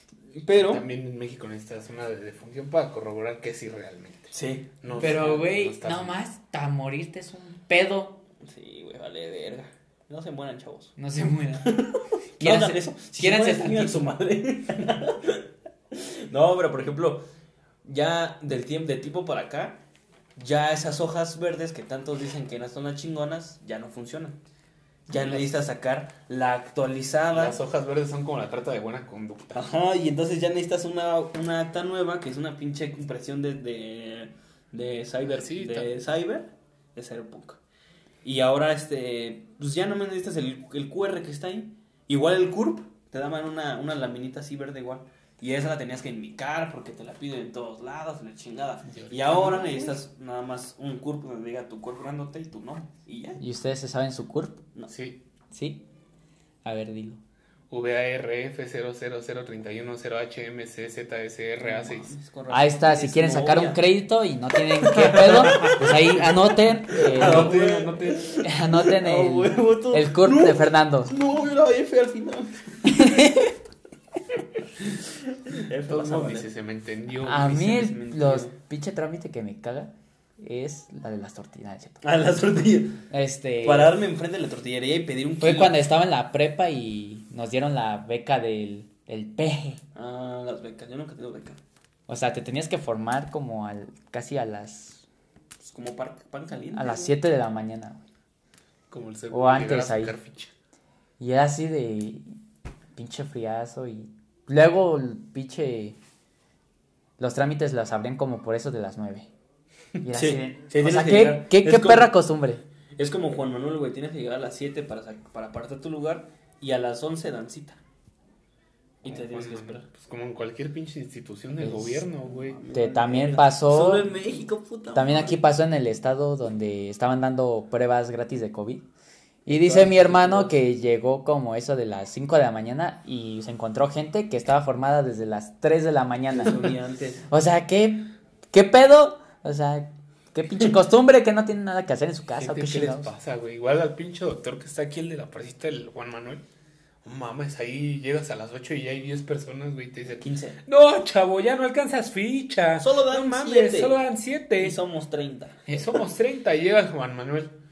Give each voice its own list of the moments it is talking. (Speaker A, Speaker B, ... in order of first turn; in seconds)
Speaker A: 0.3-0.8, 4.3-5.4, 8.4-10.9, 11.6-17.2, 17.8-19.8, 20.4-24.4, 25.1-27.6, 29.5-37.6, 38.2-53.4, 61.6-63.8, 64.9-66.2, 67.0-73.1, 75.5-76.5, 77.4-78.5, 82.0-83.0, 83.6-85.7, 89.9-91.6, 95.6-97.1, 110.1-112.1, 113.0-117.8, 119.0-119.8, 122.2-125.4, 129.5-130.6, 136.3-137.2, 150.2-150.6, 152.8-154.0, 154.5-155.8
Speaker B: 0.5-6.2, 25.1-25.5, 27.3-29.7, 35.3-35.9, 48.9-50.0, 54.9-55.2, 57.7-62.1, 65.2-65.8, 67.1-68.3, 75.8-77.8, 98.9-100.5, 119.0-122.6, 142.4-146.4, 147.0-154.8, 155.7-157.5
Speaker C: 4.9-8.2, 11.0-11.9, 12.4-14.1, 53.4-54.6, 55.5-55.8, 56.6-57.2, 62.5-67.6, 68.4-71.2, 72.8-73.5, 77.2-82.0, 83.1-84.0, 85.4-89.8, 92.1-95.0, 96.7-98.0, 99.3-100.1, 101.2-102.3, 103.0-106.0, 107.2-109.3, 110.0-112.6, 121.6-122.0, 122.7-124.1, 124.9-128.8, 129.4-136.6, 137.3-143.1